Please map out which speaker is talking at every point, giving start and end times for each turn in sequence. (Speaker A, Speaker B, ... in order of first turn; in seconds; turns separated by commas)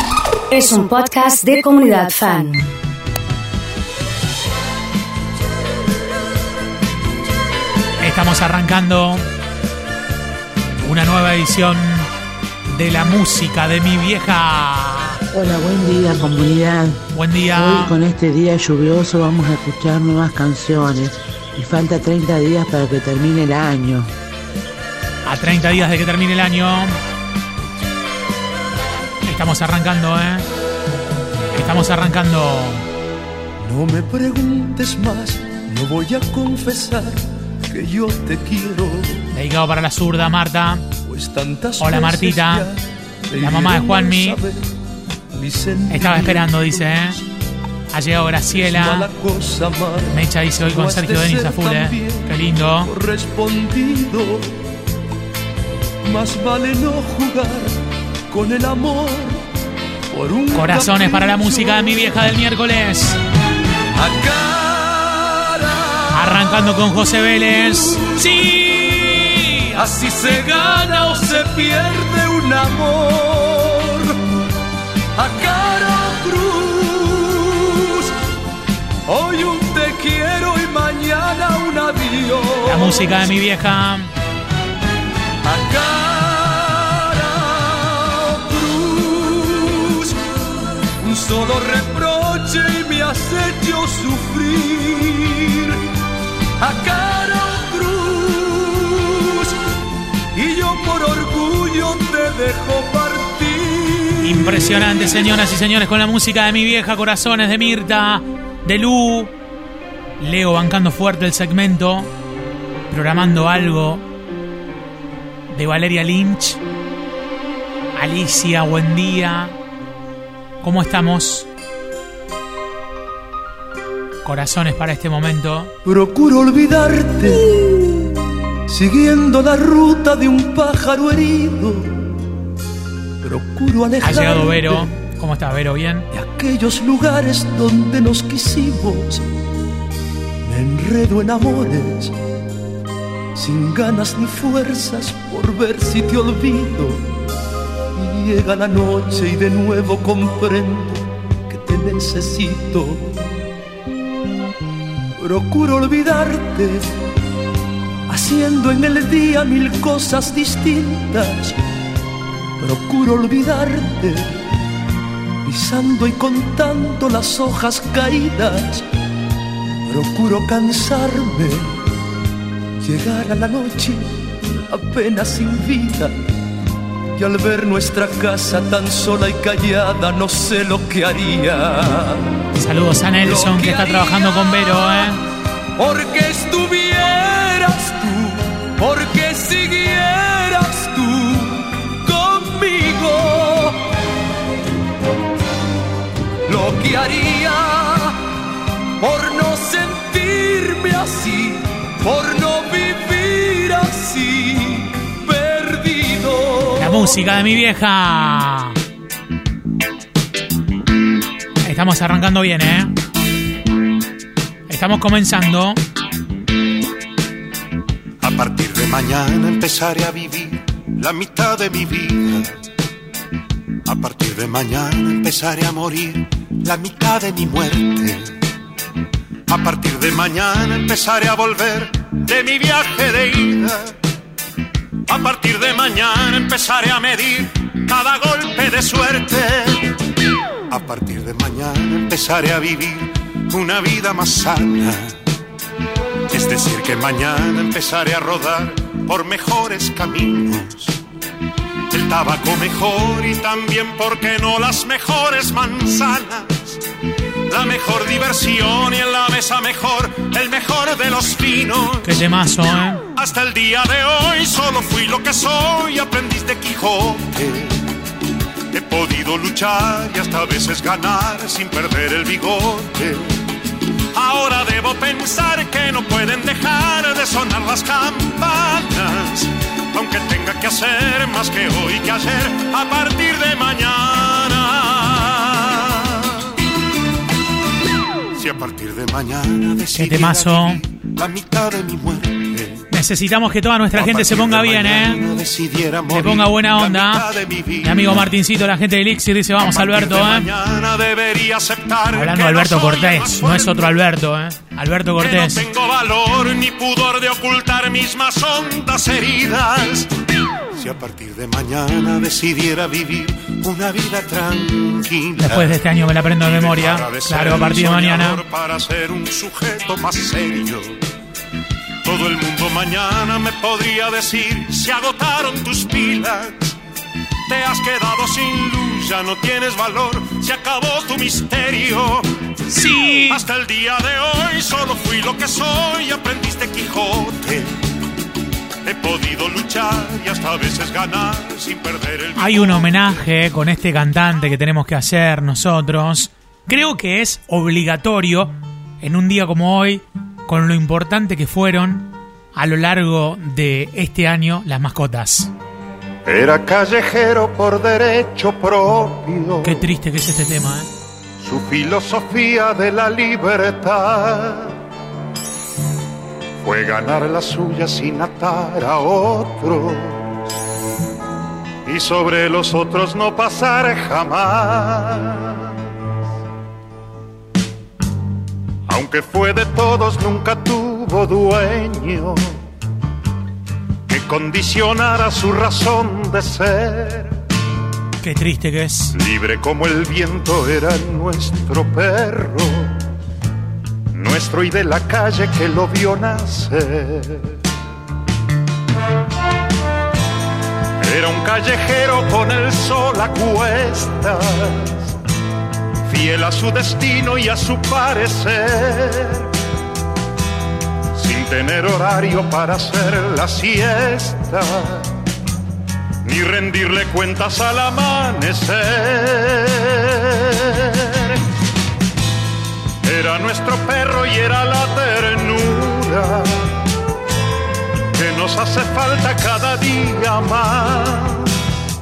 Speaker A: 0.5-2.7, Speaker B: 8.0-9.2, Speaker B: 10.8-12.1, Speaker B: 12.7-15.2, Speaker C: 15.3-17.0, Speaker B: 17.1-17.9, Speaker C: 17.5-24.1, Speaker B: 25.3-26.9, Speaker B: 29.3-30.4, Speaker B: 31.5-32.8, Speaker D: 33.6-39.2, Speaker B: 39.3-40.9, Speaker D: 41.0-44.7, Speaker B: 41.8-42.7, Speaker B: 43.4-44.4, Speaker D: 45.3-47.1, Speaker B: 45.9-47.2, Speaker B: 47.9-49.1, Speaker D: 48.5-54.5, Speaker B: 50.1-52.9, Speaker D: 56.0-59.5, Speaker D: 60.1-62.3, Speaker B: 60.5-63.2, Speaker D: 63.9-68.5, Speaker B: 66.1-69.8, Speaker D: 69.8-74.2, Speaker D: 75.2-78.1, Speaker D: 79.1-83.3, Speaker B: 82.7-84.1, Speaker D: 85.4-90.3, Speaker D: 91.0-95.9, Speaker D: 96.6-99.6, Speaker D: 100.3-104.9, Speaker B: 104.2-109.3, Speaker B: 110.2-112.1, Speaker B: 112.9-114.0, Speaker B: 115.5-116.6, Speaker B: 118.0-119.5, Speaker B: 120.6-121.5, Speaker B: 124.2-125.7, Speaker D: 125.8-127.6, Speaker D: 128.7-132.0, Speaker D: 133.2-134.9, Speaker B: 134.0-136.1, Speaker D: 136.1-139.3, Speaker D: 140.4-142.2, Speaker D: 143.3-147.1, Speaker D: 147.9-153.1, Speaker D: 155.2-156.9, Speaker D: 158.1-161.6, Speaker D: 162.6-164.4, Speaker D: 165.4-168.9, Speaker D: 169.9-171.8, Speaker D: 172.8-176.2, Speaker D: 177.2-182.3, Speaker B: 182.6-185.2, Speaker D: 183.2-185.1, Speaker D: 185.8-193.9, Speaker D: 196.5-198.2, Speaker D: 199.0-207.2, Speaker B: 206.8-208.8, Speaker B: 211.6-212.9, Speaker B: 214.7-215.8, Speaker E: 218.2-222.5, Speaker E: 223.9-228.3, Speaker E: 229.5-233.9, Speaker E: 235.1-239.9, Speaker E: 240.7-245.2, Speaker E: 246.3-251.0, Speaker E: 251.9-256.8, Speaker E: 257.5-262.2, Speaker B: 262.0-263.0, Speaker E: 263.2-267.8, Speaker E: 268.7-273.4, Speaker E: 274.1-286.4, Speaker E: 288.3-292.9, Speaker B: 289.9-290.8, Speaker B: 292.9-295.3, Speaker E: 293.9-298.3, Speaker B: 296.1-297.2, Speaker B: 297.8-300.5, Speaker E: 299.6-303.9, Speaker B: 302.1-305.6, Speaker E: 305.2-310.1, Speaker E: 310.7-315.8, Speaker B: 315.4-318.4, Speaker E: 316.4-321.0, Speaker E: 322.0-326.8, Speaker E: 327.5-332.3, Speaker B: 332.7-333.4, Speaker E: 333.2-337.7, Speaker E: 338.8-343.2, Speaker B: 342.4-355.5, Speaker E: 356.3-359.8, Speaker B: 359.6-360.9, Speaker E: 361.4-364.8, Speaker E: 366.6-370.3, Speaker E: 371.9-375.7, Speaker E: 378.9-382.6, Speaker E: 384.1-387.4, Speaker B: 388.2-389.2, Speaker E: 389.1-393.0, Speaker E: 394.1-397.6, Speaker E: 401.0-405.1, Speaker E: 406.0-409.5, Speaker E: 411.1-415.1, Speaker E: 416.2-421.4, Speaker E: 423.0-426.7, Speaker E: 428.1-431.5